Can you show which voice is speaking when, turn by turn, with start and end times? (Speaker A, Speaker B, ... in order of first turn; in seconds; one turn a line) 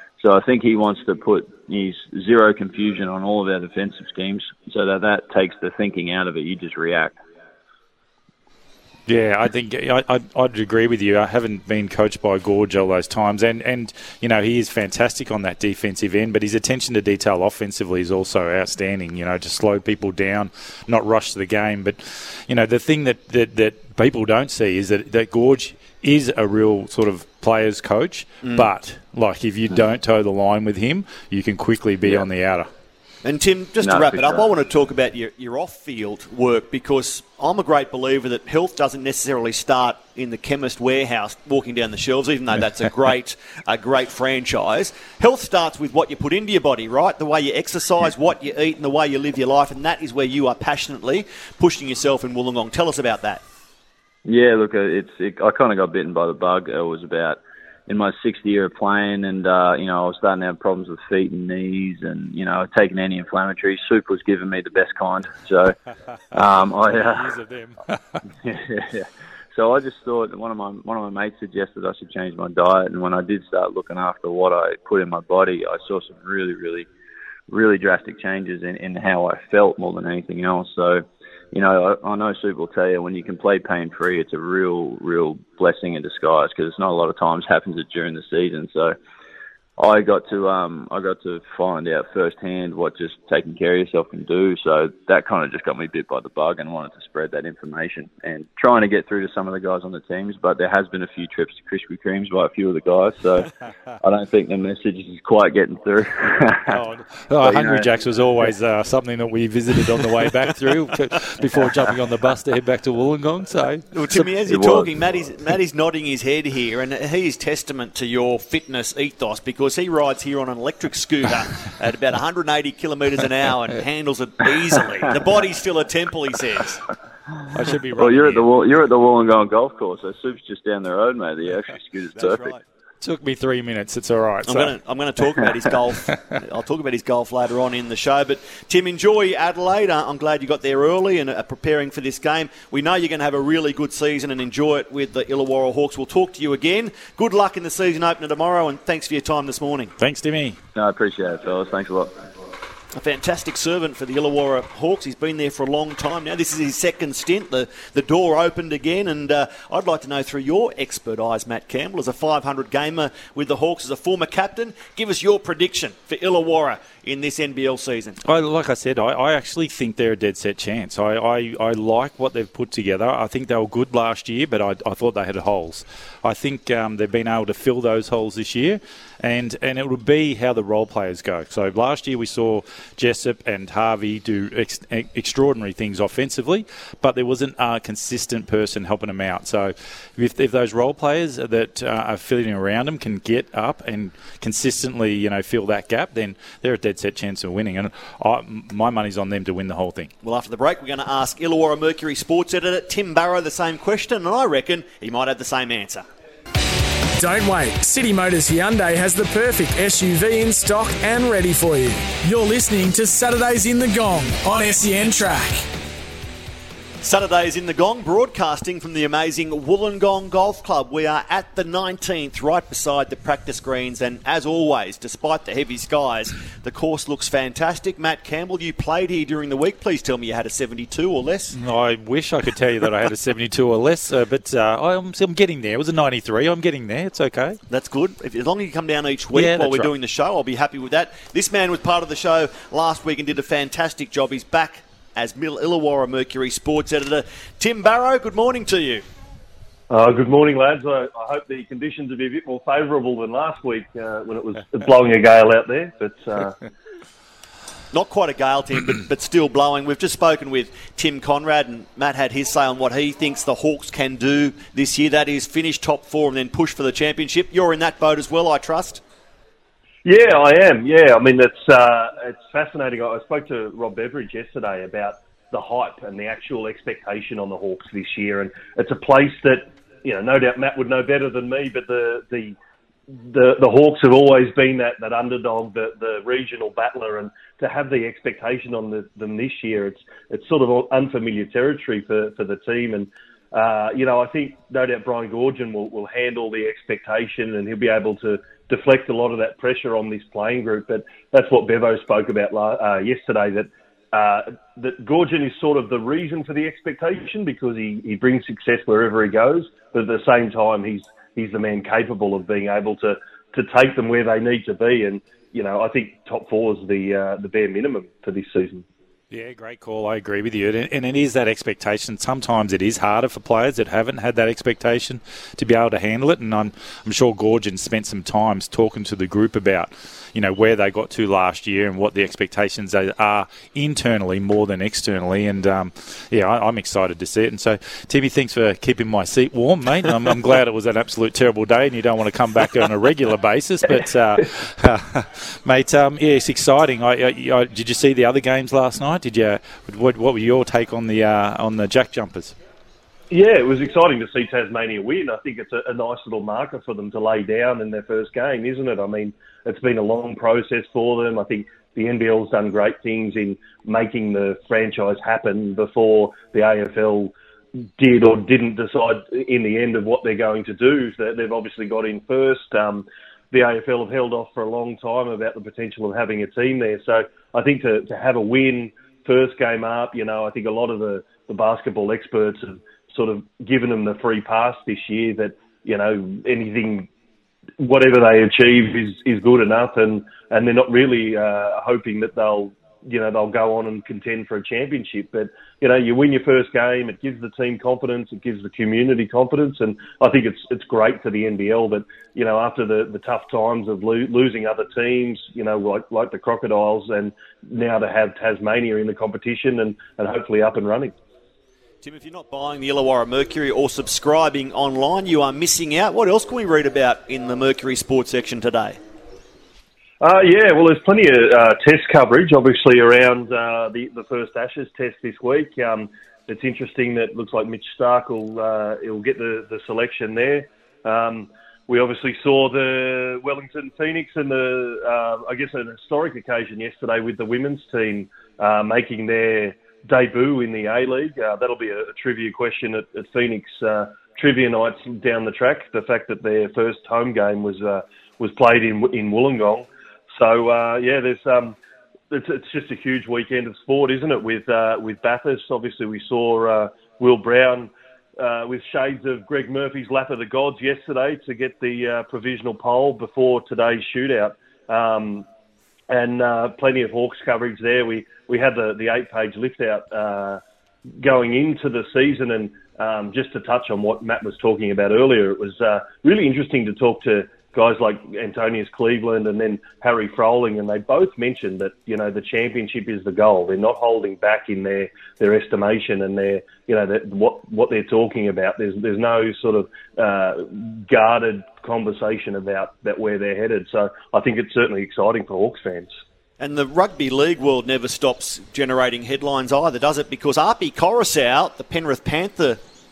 Speaker A: 0.2-7.2
Speaker B: 9.1-32.7
Speaker C: 28.4-28.7
Speaker C: 33.2-53.4
Speaker A: 33.8-34.5
Speaker A: 54.2-65.7
Speaker A: 66.3-67.3
Speaker B: 66.9-68.2
Speaker A: 68.4-76.9
Speaker A: 77.5-89.0
Speaker A: 89.8-103.5
Speaker A: 104.0-106.8
Speaker B: 106.7-114.3
Speaker A: 107.4-107.9
Speaker C: 113.9-126.8
Speaker A: 114.5-114.9
Speaker B: 127.5-128.5
Speaker A: 127.9-132.5
Speaker C: 132.2-132.6
Speaker B: 133.0-134.7
Speaker C: 134.4-149.9
Speaker B: 150.0-150.6
Speaker A: 150.7-152.2
Speaker C: 152.9-168.2
Speaker B: 168.2-200.1
Speaker C: 200.2-206.0
Speaker D: 207.2-215.6
Speaker C: 217.0-231.5
Speaker B: 231.5-237.6
Speaker C: 237.7-249.0
Speaker B: 239.3-239.9
Speaker E: 249.9-256.6
Speaker C: 257.9-269.0
Speaker E: 270.0-282.6
Speaker E: 283.1-318.8
Speaker B: 319.3-352.5
Speaker E: 353.3-367.3
Speaker E: 368.0-387.1
Speaker E: 387.8-411.1
Speaker C: 412.0-419.0
Speaker E: 420.2-451.8
Speaker E: 452.3-465.4
Speaker E: 466.1-470.6
Speaker E: 471.2-496.1
Speaker C: 496.6-502.8